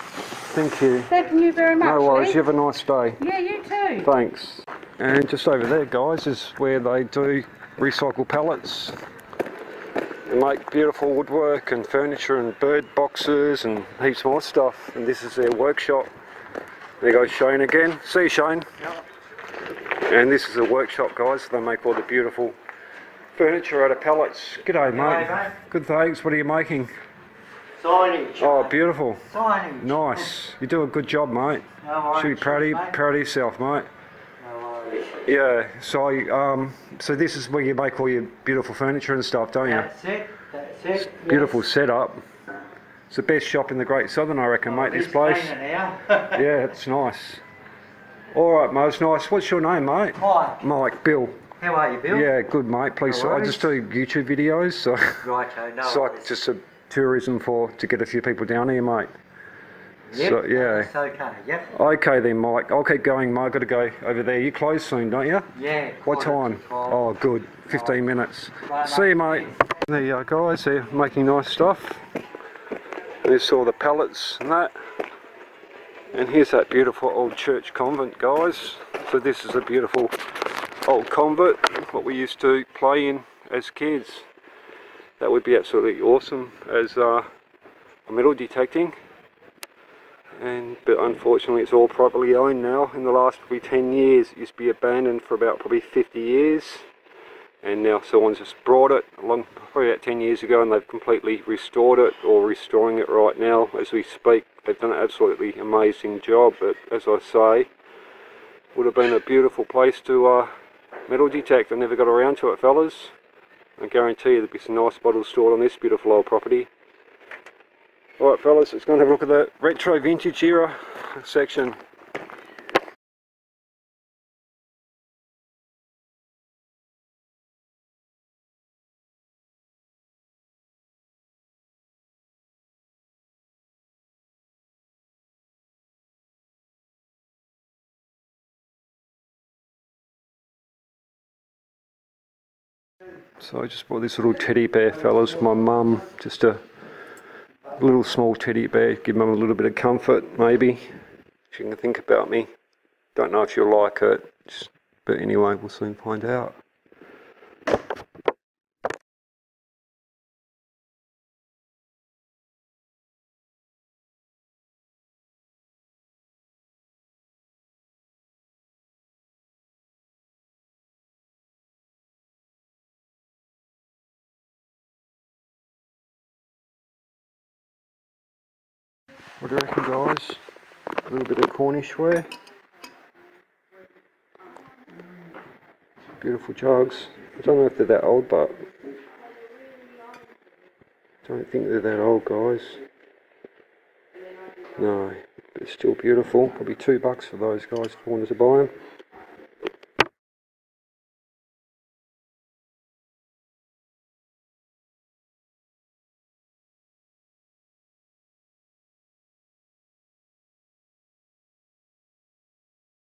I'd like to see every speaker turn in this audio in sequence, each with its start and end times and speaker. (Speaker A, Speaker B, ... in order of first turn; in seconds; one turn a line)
Speaker A: 0.4-1.1
Speaker B: 1.1-2.4
Speaker A: 1.8-3.2
Speaker B: 3.2-4.1
Speaker A: 4.0-9.0
Speaker A: 10.3-16.1
Speaker A: 17.0-18.7
Speaker A: 20.0-22.6
Speaker A: 23.4-26.9
Speaker C: 24.9-25.5
Speaker C: 27.8-30.3
Speaker A: 28.4-29.3
Speaker A: 29.8-33.9
Speaker C: 31.8-33.0
Speaker C: 34.4-35.1
Speaker A: 35.2-39.9
Speaker C: 39.6-41.6
Speaker A: 41.0-42.2
Speaker A: 43.1-45.5
Speaker C: 44.6-46.4
Speaker A: 46.3-47.4
Speaker A: 48.3-51.5
Speaker C: 50.2-50.6
Speaker C: 51.6-52.3
Speaker A: 52.1-55.2
Speaker C: 53.0-53.7
Speaker C: 55.2-56.3
Speaker A: 55.8-59.1
Speaker C: 60.1-61.7
Speaker A: 60.1-60.9
Speaker A: 61.7-72.0
Speaker C: 65.6-67.1
Speaker C: 67.7-68.0
Speaker C: 68.6-69.5
Speaker A: 73.2-74.7
Speaker A: 76.1-80.1
Speaker A: 80.8-84.3
Speaker A: 85.2-87.3
Speaker A: 88.1-89.0
Speaker A: 90.4-96.9
Speaker A: 97.6-107.7
Speaker A: 108.8-110.5
Speaker A: 111.1-113.1
Speaker A: 113.8-116.7
Speaker A: 118.2-121.8
Speaker A: 143.4-146.6
Speaker A: 147.8-150.9
Speaker A: 151.5-152.5
Speaker A: 153.2-156.6
Speaker A: 179.4-180.4
Speaker A: 181.1-182.3
Speaker A: 186.2-188.6
Speaker A: 191.2-192.8
Speaker A: 194.8-198.7